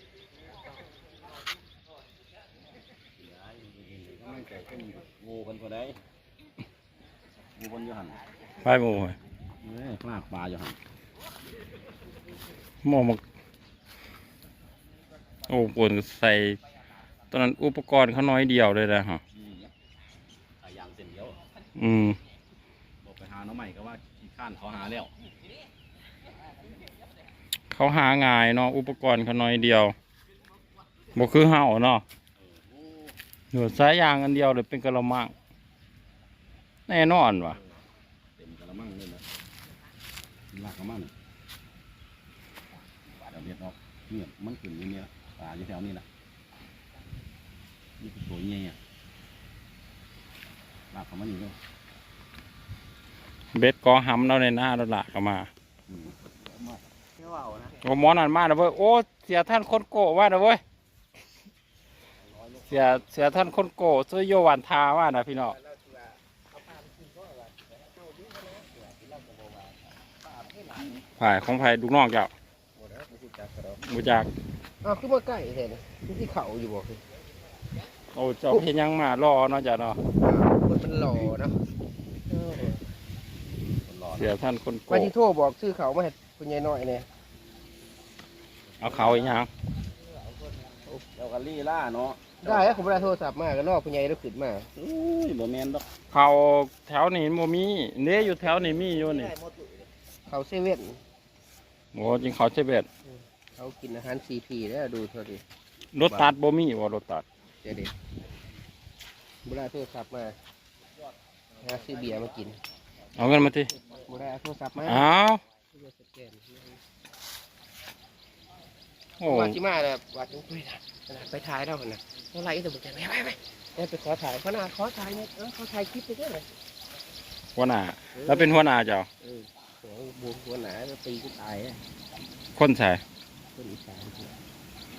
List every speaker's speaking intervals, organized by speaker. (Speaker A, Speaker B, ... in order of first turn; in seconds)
Speaker A: 3.2-6.0, 7.6-8.2, 9.6-10.8, 19.3-19.7, 20.6-21.4, 23.0-25.1, 32.4-33.2, 38.4-39.2, 40.5-41.1, 43.2-46.0, 48.0-48.8, 50.9-51.6, 55.9-56.8, 62.2-63.5, 83.8-84.4, 88.7-89.4, 91.2-93.1, 94.8-95.8
Speaker B: 8.6-9.2, 12.8-13.2, 15.5-16.6, 17.3-19.2, 21.8-22.2, 27.7-29.9, 31.1-32.0, 33.5-35.3, 36.9-37.6, 53.5-55.5, 57.8-60.6, 62.7-65.5, 71.0-72.3, 73.8-74.3, 78.1-80.0, 84.2-85.1, 88.8-89.5, 96.1-99.3, 101.9-102.9, 105.9-107.2, 113.2-113.7, 114.8-115.4, 119.2-119.6, 127.6-129.1, 132.6-133.0
Speaker C: 57.2-57.6, 65.4-70.9, 72.8-73.8, 74.8-77.0, 80.1-81.6, 82.3-82.8, 84.9-87.1, 90.6-91.0, 92.4-94.7, 100.3-101.0, 103.0-105.4, 106.0-106.3, 107.6-107.9, 109.4-110.4, 111.6-112.6, 114.1-115.1, 115.7-116.8, 119.2-126.5, 128.2-128.6, 129.2-131.8, 133.6-134.4